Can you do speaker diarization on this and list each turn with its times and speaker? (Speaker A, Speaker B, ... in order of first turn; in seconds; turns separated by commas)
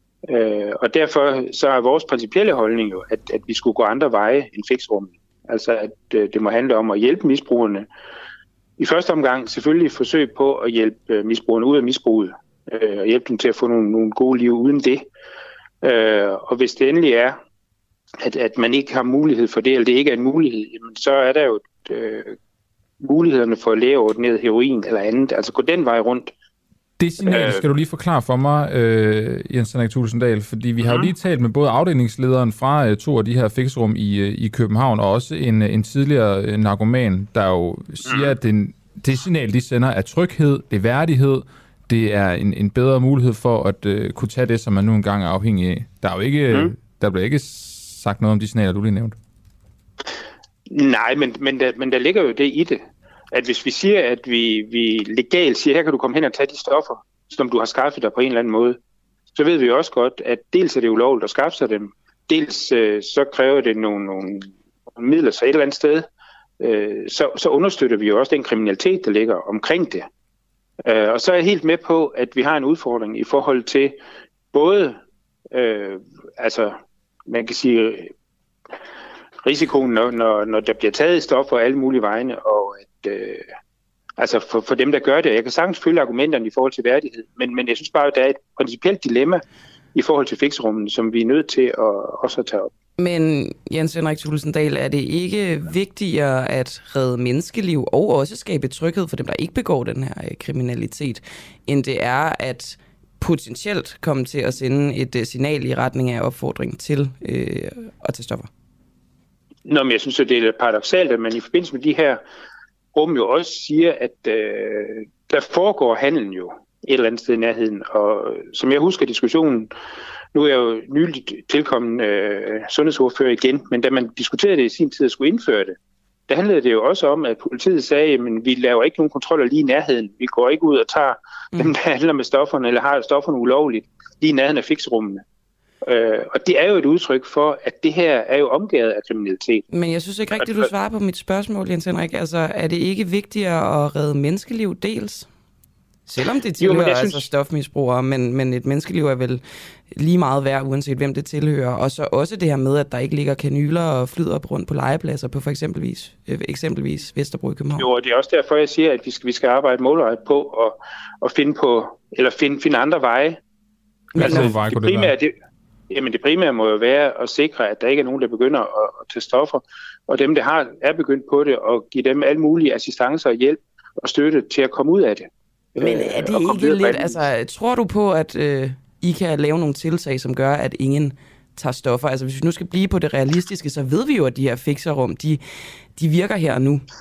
Speaker A: 0.3-7.9, Speaker A: 8.8-15.1, Speaker A: 15.8-17.4, Speaker A: 18.2-22.4, Speaker A: 23.0-26.3, Speaker B: 27.0-49.1, Speaker A: 27.2-27.6, Speaker A: 30.8-31.1, Speaker A: 38.0-38.3, Speaker A: 50.7-58.8, Speaker A: 59.3-66.1, Speaker A: 66.6-70.1, Speaker A: 70.8-74.0, Speaker A: 74.5-75.0, Speaker A: 75.5-78.1, Speaker A: 79.4-83.5, Speaker A: 84.2-89.4, Speaker A: 89.9-92.7, Speaker C: 93.0-108.5, Speaker A: 109.6-112.2, Speaker A: 112.9-119.7, Speaker A: 120.3-125.8, Speaker A: 126.3-135.2, Speaker A: 135.8-139.6, Speaker C: 139.7-145.3, Speaker A: 140.4-140.7, Speaker C: 146.1-157.9, Speaker A: 146.6-147.3, Speaker A: 157.8-163.4, Speaker C: 164.1-164.5, Speaker A: 164.2-165.3, Speaker B: 164.2-165.1, Speaker A: 165.9-177.3, Speaker C: 175.8-185.4, Speaker C: 185.9-186.8